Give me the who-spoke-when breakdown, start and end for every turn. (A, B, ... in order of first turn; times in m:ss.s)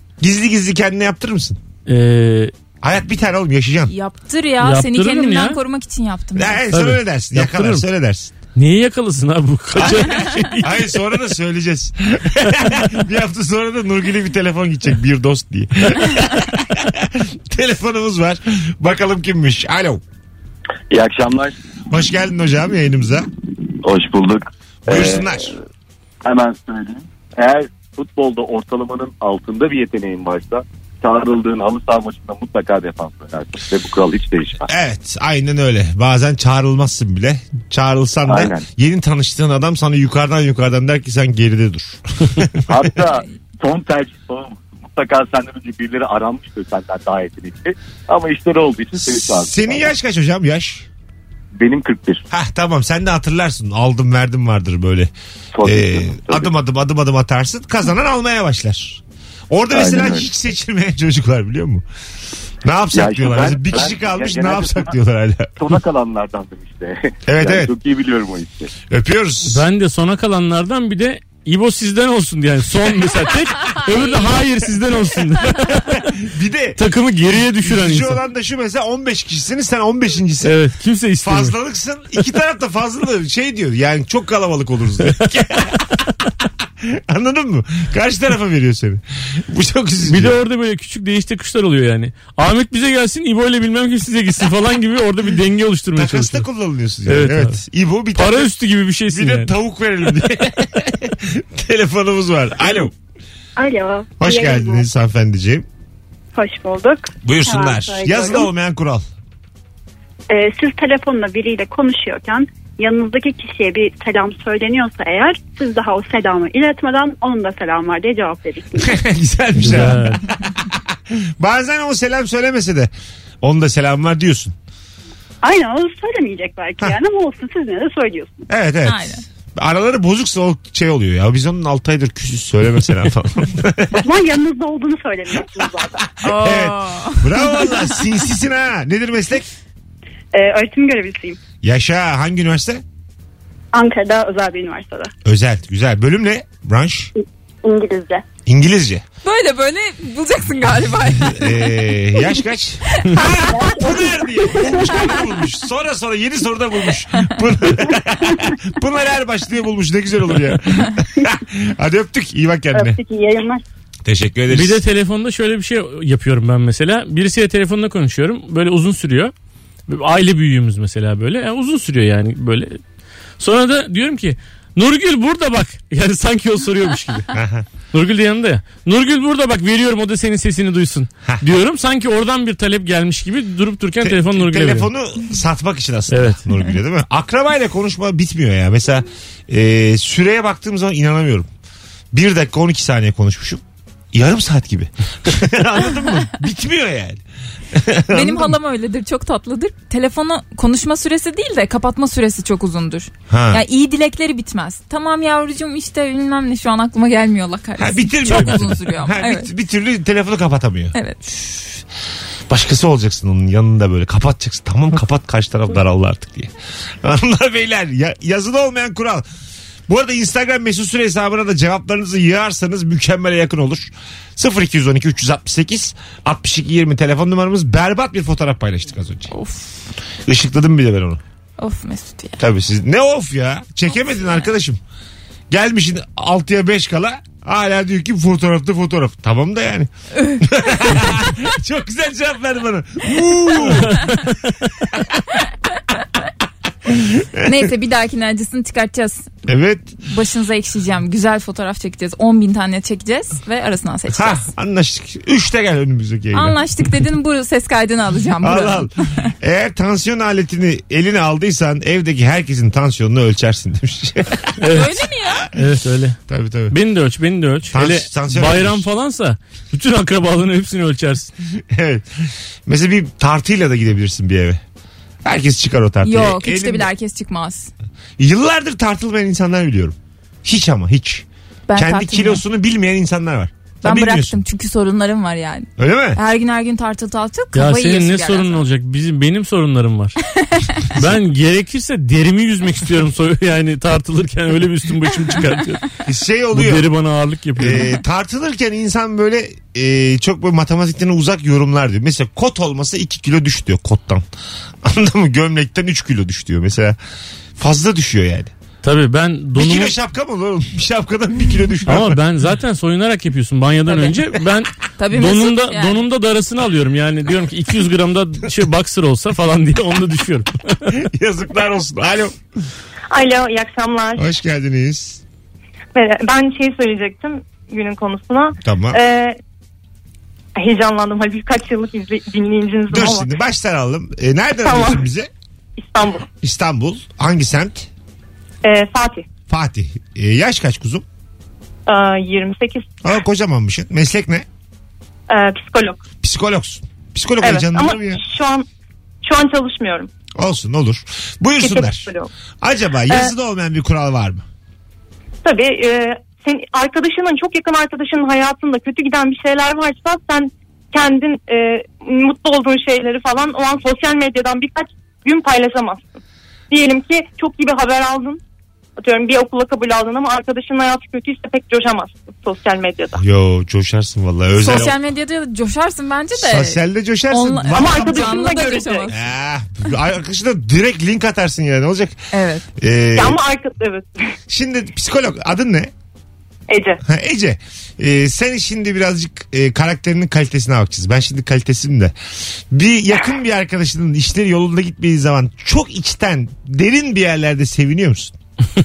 0:00.2-0:01.6 A
0:01.8-0:02.5 B
0:02.8-0:03.9 A
0:03.9-0:06.6 C
0:04.6-0:05.6 B
0:06.4-0:08.3 A
0:06.7-0:07.8 B
0:08.5-0:10.9 B
0:09.8-0:20.0 A
0:20.9-0:21.6 D
0:21.9-0:23.3 A
0:23.8-0:25.5 D
0:24.9-0:25.5 A
0:26.2-0:34.6 D
0:34.7-0:42.7 A
0:38.2-0:38.6 D
0:42.7-0:49.8 D
0:49.4-0:50.8 A
0:51.6-0:52.2 D
0:52.3-0:55.1 A
0:55.5-0:56.5 D
0:55.6-1:01.8 A
0:59.7-1:00.2 D
1:02.6-1:05.5 A
1:02.9-1:04.9 D
1:05.6-1:08.7 D
1:07.3-1:07.7 A
1:08.9-1:09.6 A
1:09.5-1:16.1 B
1:15.8-1:16.8 A
1:16.8-1:18.2 B
1:17.5-1:20.6 A
1:20.4-1:21.5 B
1:21.2-1:30.4 A
1:30.0-1:36.4 B
1:36.0-1:38.5 A
1:37.0-1:37.6 B
1:38.1-1:39.5 B
1:39.1-1:42.9 A
1:43.6-1:44.8 E
1:44.2-1:45.7 A
1:46.3-1:48.5 E
1:47.2-1:49.0 A
1:50.3-1:59.0 E
1:58.8-2:04.5 A
1:59.6-2:00.2 B
2:05.4-2:08.5 E
2:08.5-2:14.0 A
2:08.8-2:09.2 C
2:14.0-2:16.1 E
2:16.2-2:18.0 C
2:16.2-2:19.5 A
2:20.3-2:21.4 E
2:21.6-2:22.8 A
2:23.7-2:25.1 E
2:25.2-2:27.1 A
2:27.6-2:28.2 E
2:28.4-2:29.0 A
2:29.2-2:31.7 C
2:31.2-2:43.0 A
2:33.0-2:33.3 C
2:33.3-2:35.2 E
2:42.7-2:43.6 E
2:44.0-2:44.8 A
2:44.5-2:49.3 B
2:49.9-2:52.8 B
2:53.4-2:57.3 B
2:57.3-2:57.7 A
2:57.9-3:04.9 B
3:04.0-3:11.5 A
3:06.1-3:06.4 B
3:12.1-3:13.6 A
3:14.1-3:18.6 A
3:18.1-3:29.5 C
3:23.3-3:23.6 A
3:27.8-3:31.0 A
3:30.9-3:31.8 C
3:32.5-3:39.2 A
3:39.9-3:49.3 A
3:49.3-3:49.8 C
3:50.2-3:51.2 A
3:51.6-3:52.4 C
3:52.4-3:54.8 A
3:55.5-4:04.2 A
4:03.7-4:04.3 B
4:06.9-4:07.7 A
4:07.4-4:09.3 C
4:09.4-4:09.9 A
4:10.0-4:14.5 C
4:14.1-4:16.6 A
4:16.3-4:19.3 C
4:18.4-4:24.8 A
4:24.6-4:25.0 B
4:24.7-4:25.5 C
4:25.5-4:26.2 B
4:26.3-4:26.8 A
4:26.7-4:31.3 B
4:27.7-4:28.8 A
4:31.6-4:34.6 A
4:35.2-4:36.9 A
4:36.0-4:37.7 C
4:38.2-4:44.4 A
4:41.7-4:42.4 C
4:43.8-4:48.6 C
4:45.8-4:46.2 A
4:47.5-4:50.2 B
4:50.4-4:50.8 C
4:50.8-4:55.9 B
4:56.0-4:56.9 A
4:56.5-4:58.0 B
4:57.6-5:04.2 A
5:04.8-5:07.0 A
5:07.6-5:08.5 A
5:08.8-5:10.0 B
5:09.5-5:12.2 A
5:11.8-5:20.9 B
5:15.0-5:16.0 C
5:20.9-5:22.4 A
5:23.1-5:24.2 F
5:24.2-5:25.2 A
5:25.9-5:29.4 F
5:28.6-5:29.0 A
5:30.6-5:33.3 F
5:32.9-5:35.3 A
5:34.6-5:35.0 F
5:35.8-5:36.3 F
5:36.4-5:37.9 A
5:38.6-5:39.3 F
5:39.5-5:41.0 A
5:41.9-5:42.9 F
5:43.0-5:44.4 A
5:45.3-5:46.0 F
5:46.2-5:48.2 A
5:47.4-5:48.6 F
5:49.2-5:50.1 F
5:50.4-5:52.1 A
5:51.6-5:52.3 F
5:52.6-5:54.4 A
5:55.4-6:08.4 F
6:09.0-6:13.2 F
6:13.2-6:15.0 A
6:14.6-6:19.2 C
6:16.3-6:18.6 A
6:17.7-6:19.1 F
6:19.1-6:22.2 A
6:22.3-6:22.6 C
6:22.8-6:23.4 A
6:23.1-6:24.2 F
6:24.5-6:25.9 A
6:26.7-6:27.0 F
6:27.0-6:32.1 A
6:32.7-6:38.3 A